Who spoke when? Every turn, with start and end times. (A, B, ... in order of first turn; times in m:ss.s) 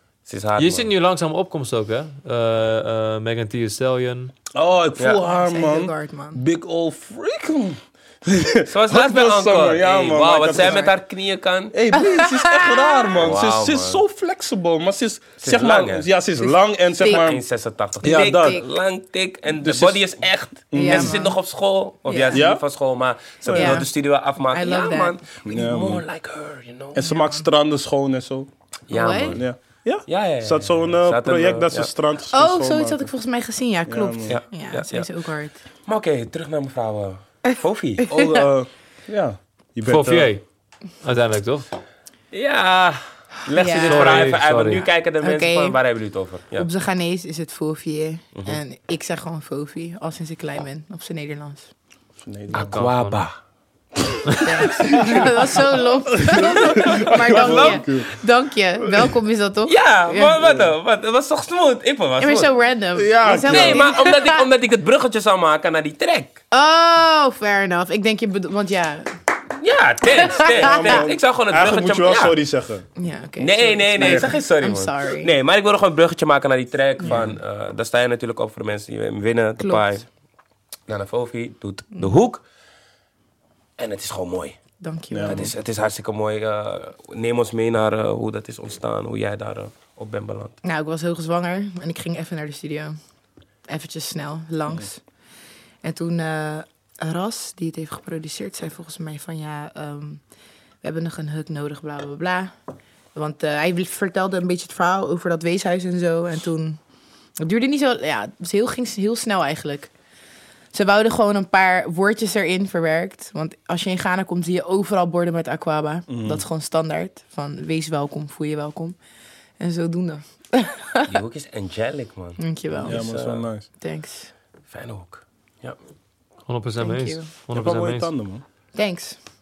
0:00.3-0:00.9 A
0:00.6-0:04.3 B
0:04.6-0:10.9 C
0:05.2-0:06.4 D
0:08.7-0:11.7 A
0:10.6-0:10.9 D
0:11.7-0:17.4 C
0:11.9-0:13.1 D
0:13.2-0:14.0 A
0:15.4-0:16.1 A
0:16.4-0:17.3 D
0:17.0-0:27.2 A
0:18.0-0:18.6 C
0:18.0-0:18.7 D
0:19.6-0:20.1 C
0:20.7-0:21.2 C
0:20.7-0:21.4 D
0:22.1-0:22.4 D
0:22.3-0:22.6 C
0:23.4-0:23.8 C
0:23.5-0:23.9 D
0:24.5-0:25.2 D
0:25.4-0:26.0 C
0:27.0-0:28.5 C
0:27.1-0:27.4 D
0:28.9-0:29.4 A
0:28.9-0:29.4 D
0:29.3-0:33.1 C
0:30.1-0:31.9 A
0:32.3-0:35.6 D
0:33.9-0:34.4 C
0:34.3-0:35.1 A
0:35.9-0:38.1 A
0:38.1-0:38.5 D
0:38.1-0:40.3 C
0:39.9-0:40.4 B
0:41.0-0:41.7 B
0:42.3-0:46.7 A
0:43.6-0:44.3 D
0:43.8-0:44.8 B
0:45.2-0:45.8 D
0:46.6-0:51.7 D
0:52.2-0:52.8 C
0:52.5-0:53.4 A
0:52.7-0:53.2 B
0:54.4-1:00.4 D
0:54.9-0:55.3 C
0:56.2-0:58.1 C
0:56.5-0:57.8 A
0:58.9-0:59.1 C
0:59.7-1:02.5 A
1:02.2-1:04.5 D
1:03.0-1:03.9 C
1:03.4-1:06.4 A
1:06.5-1:09.1 D
1:09.6-1:12.4 A
1:10.1-1:11.0 D
1:10.5-1:12.8 C
1:13.0-1:15.3 D
1:13.4-1:20.0 A
1:14.0-1:14.3 C
1:17.0-1:17.3 D
1:19.6-1:19.9 D
1:20.9-1:22.4 A
1:23.8-1:24.6 A
1:24.8-1:25.5 D
1:25.1-1:25.5 C
1:25.2-1:30.6 A
1:30.6-1:33.0 D
1:33.7-1:35.0 D
1:35.8-1:40.2 D
1:40.8-1:42.5 D
1:43.1-1:46.8 D
1:47.4-1:49.9 D
1:50.7-1:59.0 D
1:56.1-1:56.4 C
1:59.6-2:01.2 D
2:01.1-2:03.5 A
2:02.4-2:03.0 D
2:02.8-2:03.7 C
2:03.8-2:04.3 D
2:04.7-2:05.8 A
2:06.5-2:08.1 B
2:06.8-2:07.3 D
2:07.5-2:08.4 C
2:08.8-2:09.2 D